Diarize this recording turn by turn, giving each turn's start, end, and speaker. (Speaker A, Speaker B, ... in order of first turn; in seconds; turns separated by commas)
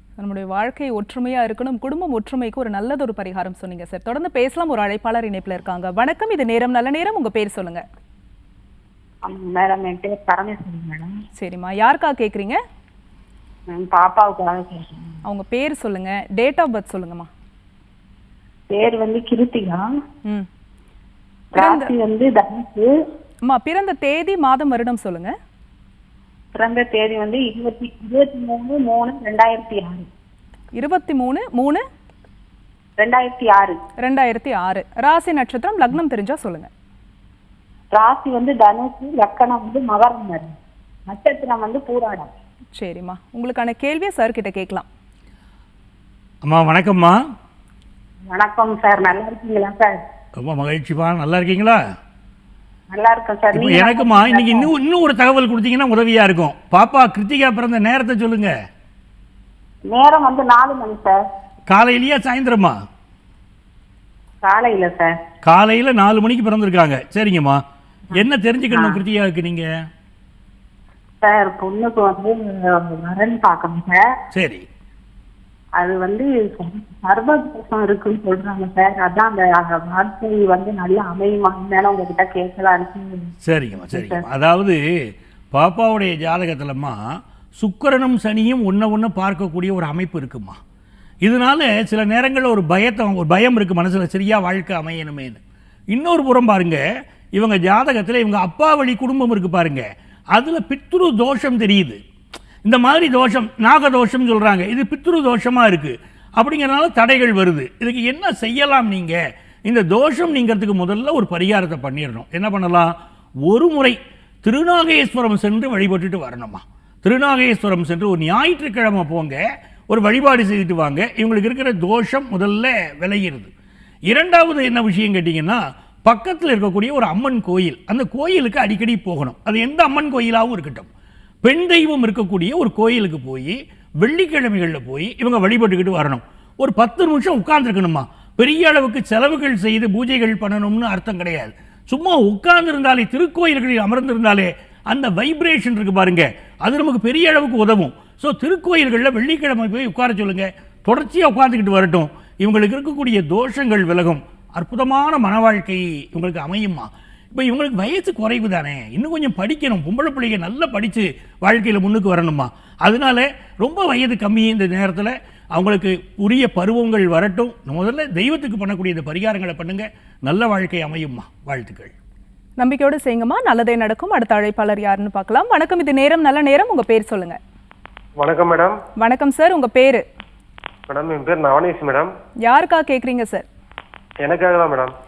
Speaker A: 0.2-7.8, Speaker B: 9.2-11.2, Speaker A: 11.4-12.6, Speaker B: 13.7-15.2, Speaker A: 15.2-17.3, Speaker B: 18.7-19.8, Speaker B: 21.5-22.9, Speaker A: 21.6-21.9, Speaker A: 23.5-25.4, Speaker B: 26.6-30.1, Speaker A: 30.8-31.8, Speaker B: 33.0-33.8, Speaker A: 34.0-36.7, Speaker B: 37.9-40.5, Speaker B: 41.1-42.3, Speaker A: 42.8-44.9, Speaker C: 46.4-47.2, Speaker B: 48.3-50.0, Speaker C: 50.4-51.8, Speaker B: 52.9-54.7, Speaker C: 53.5-58.5, Speaker B: 59.9-61.3, Speaker C: 61.7-62.8, Speaker B: 64.4-65.2, Speaker C: 65.4-67.6, Speaker C: 68.1-69.7, Speaker B: 68.7-69.0, Speaker B: 71.2-74.0, Speaker C: 74.3-74.7, Speaker B: 75.8-83.3, Speaker C: 83.5-84.8, Speaker B: 83.9-84.2, Speaker C: 85.5-87.0, Speaker C: 87.6-90.6, Speaker C: 91.2-95.4, Speaker C: 95.9-96.8, Speaker C: 97.3-102.0, Speaker C: 102.6-112.9, Speaker C: 113.5-123.5, Speaker C: 124.1-130.9, Speaker C: 131.4-171.9, Speaker A: 172.6-177.4, Speaker D: 178.2-178.8, Speaker A: 179.0-180.0, Speaker D: 180.9-182.1, Speaker A: 182.4-183.5, Speaker D: 184.2-184.9